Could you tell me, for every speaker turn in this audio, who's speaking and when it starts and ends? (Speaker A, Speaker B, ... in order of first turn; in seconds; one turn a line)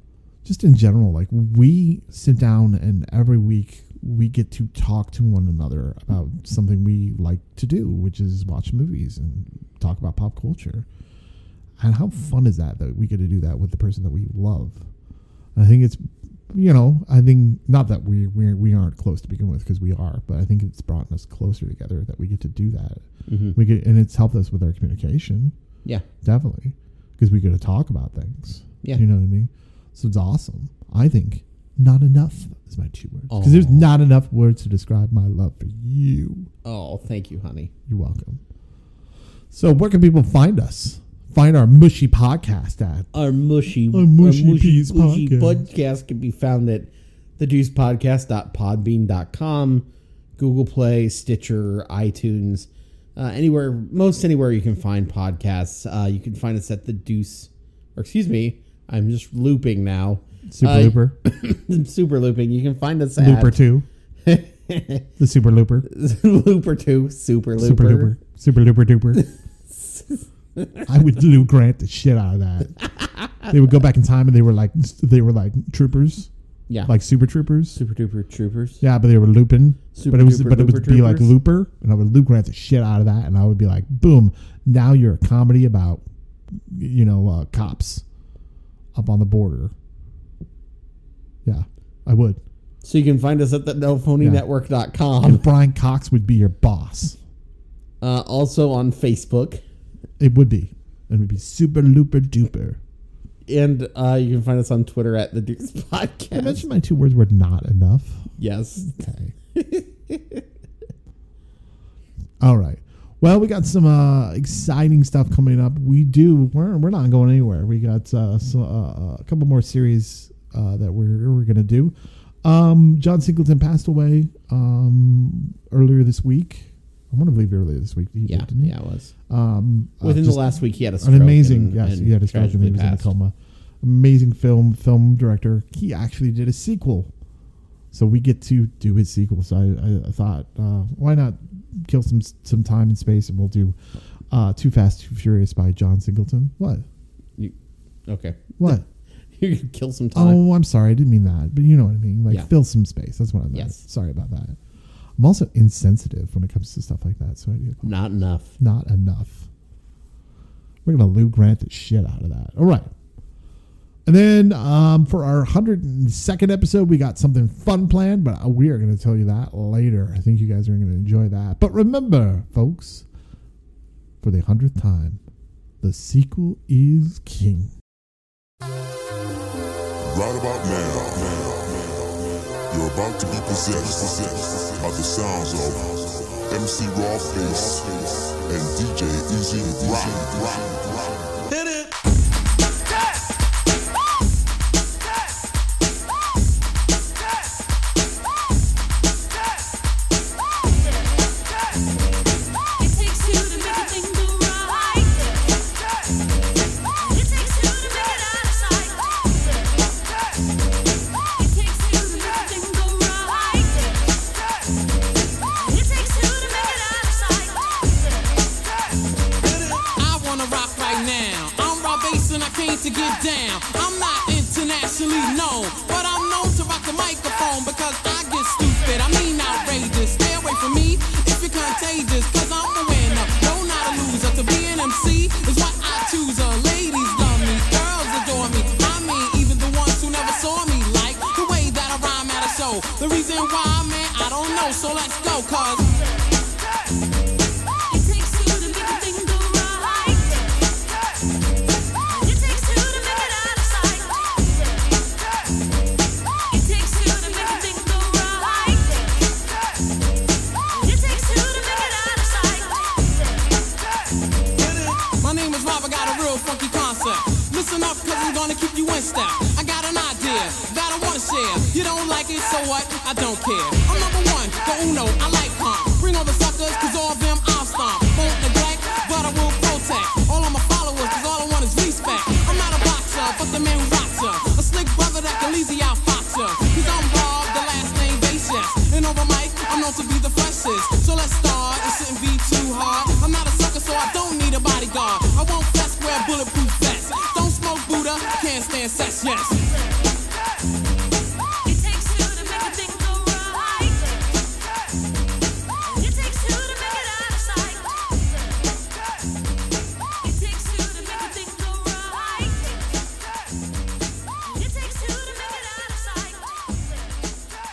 Speaker A: 0.4-10.8
Speaker A: 11.8-14.8
Speaker A: 15.5-25.5
Speaker B: 23.3-23.6
Speaker A: 26.2-36.5
Speaker B: 33.3-33.9
Speaker B: 36.6-37.7
Speaker A: 37.9-38.4
Speaker A: 39.5-43.1
Speaker B: 43.1-49.9
Speaker A: 43.9-45.6
Speaker B: 50.4-63.6
Speaker A: 60.5-61.2
Speaker A: 63.2-63.9
Speaker B: 64.2-65.1
Speaker A: 65.2-65.8
Speaker B: 65.8-68.1
Speaker A: 67.6-69.2
Speaker B: 69.2-70.9
Speaker A: 70.9-72.8
Speaker A: 73.4-76.3
Speaker A: 76.8-77.8
Speaker B: 77.8-78.8
Speaker A: 78.8-86.0
Speaker B: 79.9-81.3
Speaker A: 86.5-88.0
Speaker A: 88.9-89.7
Speaker A: 91.4-92.4
Speaker B: 92.8-95.5
Speaker A: 95.2-97.2
Speaker B: 98.0-99.6
Speaker A: 100.2-102.8
Speaker B: 103.5-106.6
Speaker A: 106.3-109.3
Speaker B: 108.4-108.9
Speaker B: 109.5-110.4
Speaker A: 112.4-128.7
Speaker B: 128.3-129.1
Speaker A: 129.3-137.1
Speaker B: 130.0-133.1
Speaker A: 137.9-143.8
Speaker A: 144.3-146.8
Speaker B: 148.1-150.4
Speaker A: 148.6-148.8
Speaker A: 150.1-154.6
Speaker B: 153.5-153.8
Speaker A: 155.2-157.9
Speaker B: 157.8-158.5
Speaker A: 158.6-159.5
Speaker A: 160.8-162.9
Speaker A: 164.1-173.1
Speaker A: 174.2-175.2
Speaker A: 175.8-177.7
Speaker C: 180.0-191.5
Speaker D: 202.8-205.3
Speaker D: 207.0-209.5
Speaker D: 211.4-213.9
Speaker D: 215.6-217.9
Speaker E: 219.9-245.9
Speaker D: 247.9-250.5
Speaker D: 252.1-254.6
Speaker D: 256.5-259.1
Speaker D: 260.7-263.2
Speaker E: 265.1-299.7
Speaker D: 301.6-304.2
Speaker D: 305.9-308.3
Speaker D: 310.2-312.8
Speaker D: 314.4-316.7